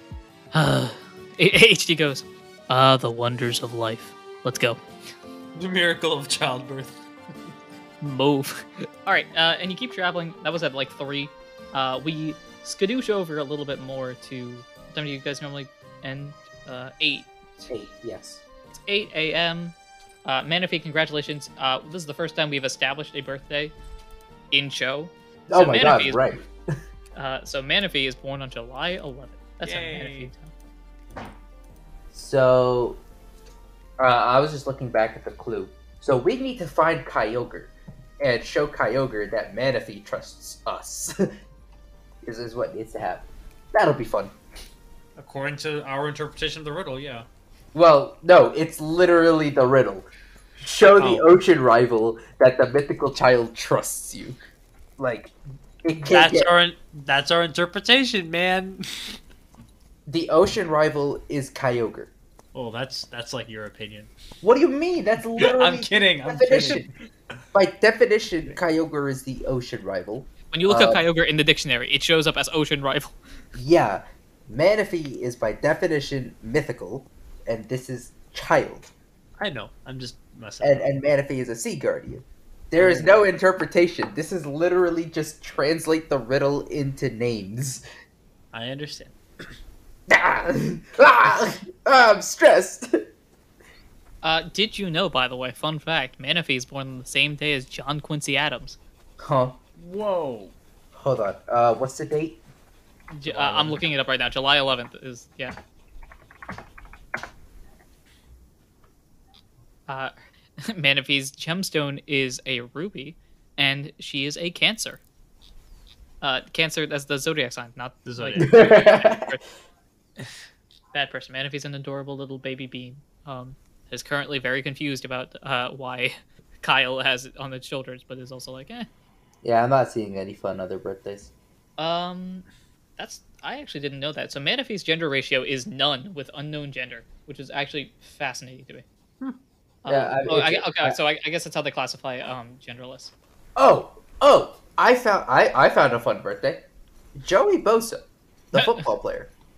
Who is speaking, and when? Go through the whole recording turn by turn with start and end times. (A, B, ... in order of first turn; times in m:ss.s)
0:00.5-0:04.8 A
0:05.6-0:07.0 B
0:08.0-0:17.3 A
0:17.6-0:18.4 C
0:18.7-0:23.8 A
0:24.5-0:26.2 A
0:25.5-0:26.5 C
0:27.2-0:30.5 A
0:29.6-0:30.3 B
0:32.1-0:33.0 C
0:34.0-0:41.3 C
0:42.2-0:44.4 C
0:45.2-0:47.3 B
0:47.7-0:50.1 C
0:50.6-0:54.4 C
0:50.9-0:51.3 B
0:55.0-0:56.5 C
0:56.1-0:59.2 B
1:00.1-1:02.1 C
1:02.5-1:04.1 B
1:04.4-1:06.9 C
1:05.4-1:06.9 B
1:07.5-1:11.1 C
1:10.5-1:13.2 A
1:13.6-1:18.9 C
1:19.4-1:20.9 B
1:20.6-1:27.8 C
1:22.8-1:23.2 B
1:28.5-1:29.2 B
1:30.1-1:33.0 C
1:34.2-1:38.8 A
1:39.2-1:39.6 C
1:39.8-1:40.6 B
1:40.9-1:42.4 C
1:43.1-1:45.6 A
1:43.3-1:43.8 B
1:49.9-1:55.0 A
1:56.2-1:59.4 A
1:58.0-1:58.6 B
1:58.4-1:59.3 C
2:00.9-2:08.9 A
2:09.4-2:11.3 C
2:11.8-2:12.5 A
2:13.0-2:18.8 A
2:19.8-2:23.1 A
2:19.9-2:21.0 C
2:23.6-2:26.6 C
2:27.2-2:29.3 C
2:28.6-2:28.9 A